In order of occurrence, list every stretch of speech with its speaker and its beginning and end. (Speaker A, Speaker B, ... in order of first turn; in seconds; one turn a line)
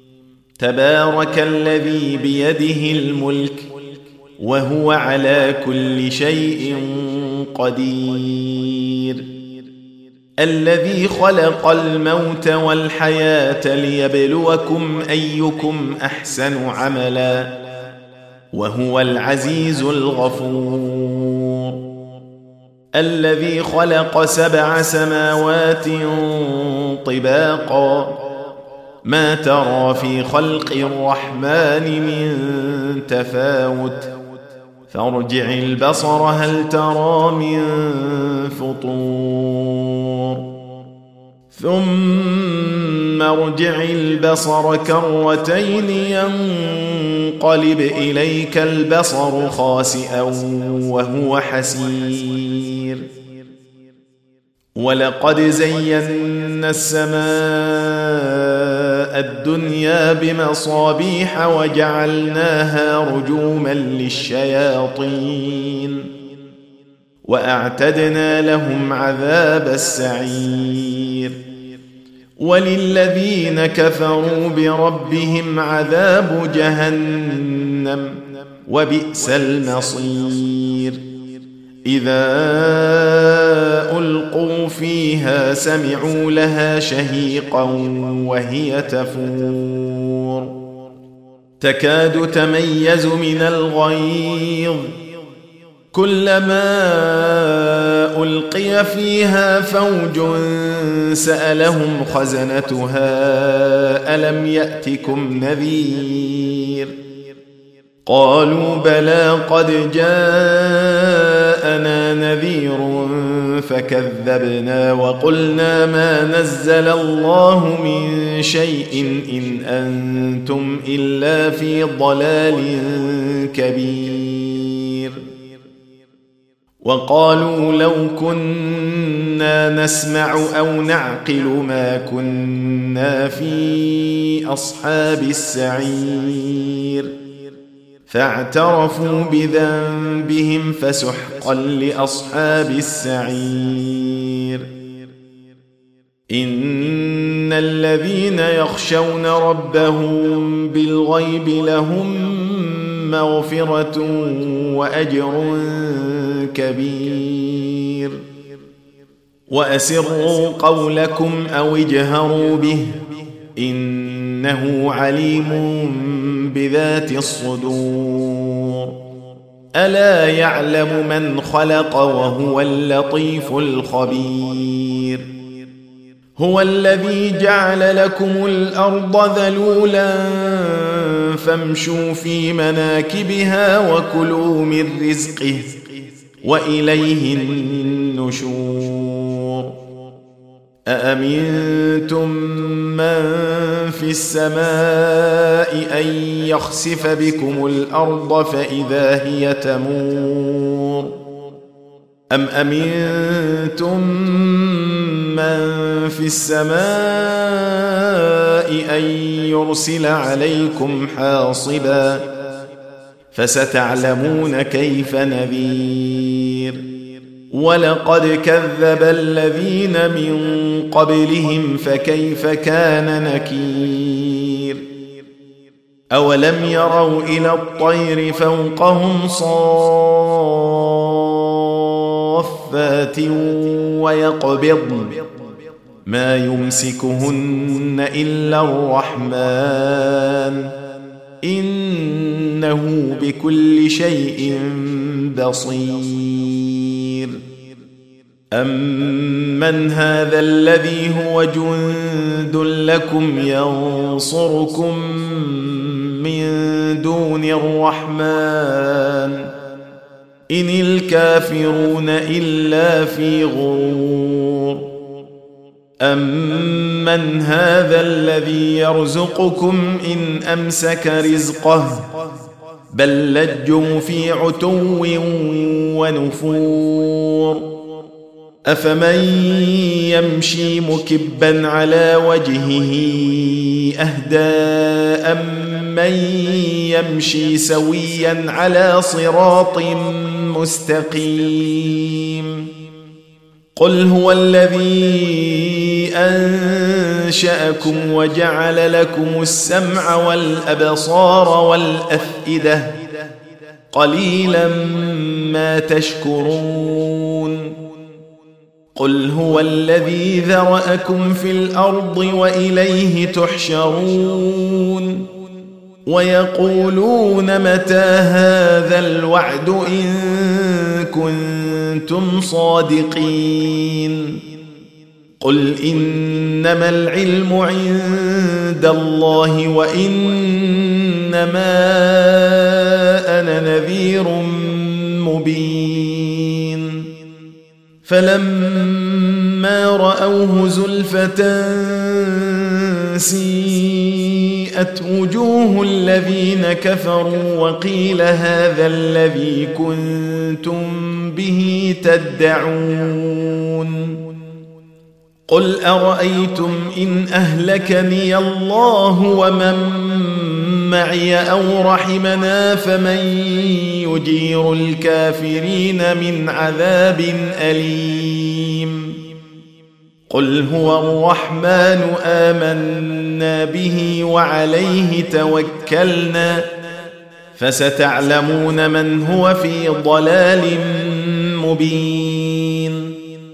Speaker A: 0.6-3.7
Speaker A: 4.4-9.3
Speaker A: 10.4-17.5
Speaker A: 18.5-21.8
Speaker A: 22.9-28.2
Speaker A: 29.0-34.1
Speaker A: 34.9-40.4
Speaker A: 41.5-53.1
Speaker A: 54.8-66.1
Speaker A: 67.2-71.4
Speaker A: 72.4-81.0
Speaker A: 81.8-90.5
Speaker A: 91.6-94.9
Speaker A: 95.9-106.9
Speaker A: 108.0-125.2
Speaker A: 126.8-137.1
Speaker A: 138.1-144.7
Speaker A: 146.3-158.2
Speaker A: 159.5-163.0
Speaker A: 163.5-168.9
Speaker A: 169.8-175.3
Speaker A: 176.3-185.8
Speaker A: 186.4-189.8
Speaker A: 190.9-201.1
Speaker A: 202.3-212.3
Speaker A: 213.3-216.8
Speaker A: 217.5-224.8
Speaker A: 226.1-235.2
Speaker A: 236.1-240.7
Speaker A: 241.4-247.4
Speaker A: 248.5-259.5
Speaker A: 260.5-264.8
Speaker A: 266.0-272.3
Speaker A: 272.9-277.7
Speaker A: 278.7-292.7
Speaker A: 293.8-303.0
Speaker A: 303.9-307.7
Speaker A: 308.9-315.2
Speaker A: 316.1-324.4
Speaker A: 325.4-337.1
Speaker A: 338.0-354.2
Speaker A: 355.5-369.2
Speaker A: 370.3-376.7
Speaker A: 377.5-383.1